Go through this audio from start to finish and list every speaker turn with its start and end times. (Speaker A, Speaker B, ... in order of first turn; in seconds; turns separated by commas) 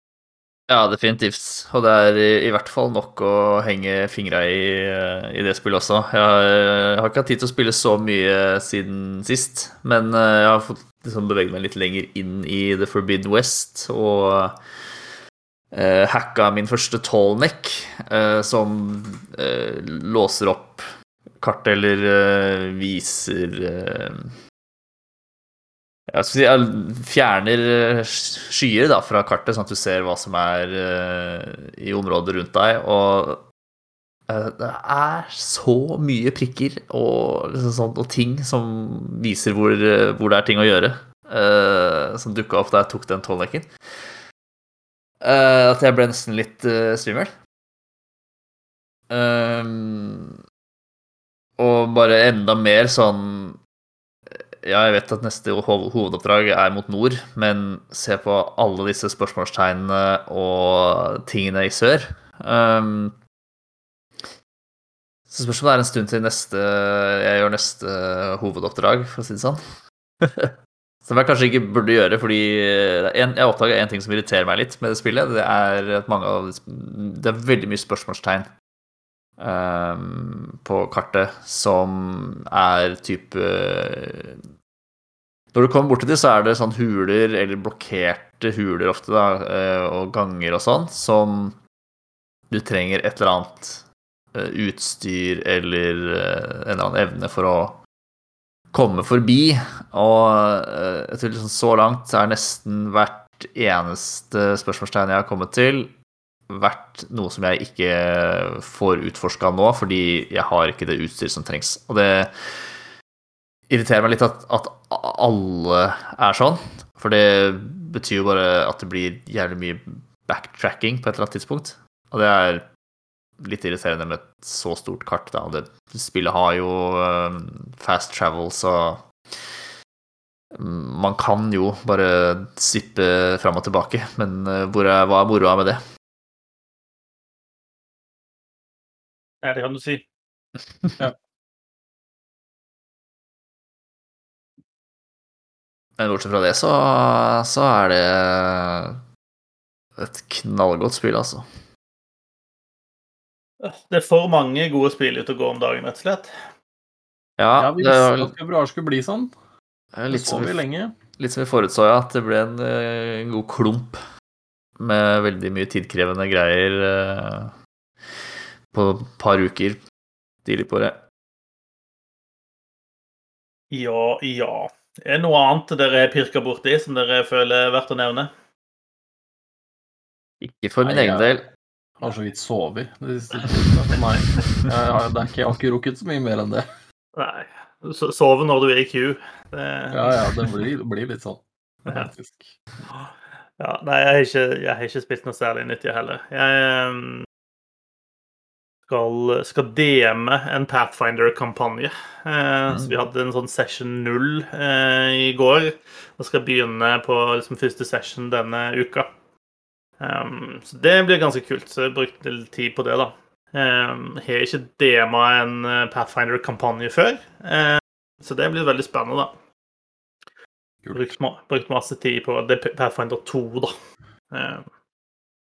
Speaker A: 0.7-14.6, Speaker A: 15.7-20.8, Speaker A: 21.4-24.3, Speaker A: 26.1-33.5, Speaker A: 34.3-43.7, Speaker A: 45.2-47.3, Speaker A: 49.1-50.3, Speaker A: 51.6-53.6, Speaker A: 54.3-63.2, Speaker A: 65.3-69.6, Speaker A: 70.2-78.5, Speaker A: 79.4-84.4, Speaker A: 85.5-91.6, Speaker A: 92.5-97.8, Speaker A: 98.7-105.9, Speaker A: 106.5-112.8, Speaker A: 113.7-122.7, Speaker A: 123.4-129.1, Speaker A: 130.6-135.8, Speaker B: 139.4-140.1, Speaker A: 146.0-149.0, Speaker A: 150.0-151.5, Speaker B: 153.6-156.3, Speaker A: 157.4-158.3, Speaker C: 157.6-159.3, Speaker A: 159.9-160.6, Speaker C: 160.1-160.9, Speaker A: 161.2-164.0, Speaker A: 164.8-167.5, Speaker A: 168.7-169.8, Speaker A: 170.4-171.0, Speaker B: 173.7-178.3, Speaker A: 180.4-181.5, Speaker C: 180.8-181.3, Speaker C: 182.0-186.7, Speaker B: 187.2-190.2, Speaker C: 189.9-192.6, Speaker B: 192.9-197.3, Speaker B: 198.9-209.1, Speaker B: 210.0-219.3, Speaker C: 220.8-221.2, Speaker B: 220.9-223.7, Speaker B: 224.3-224.7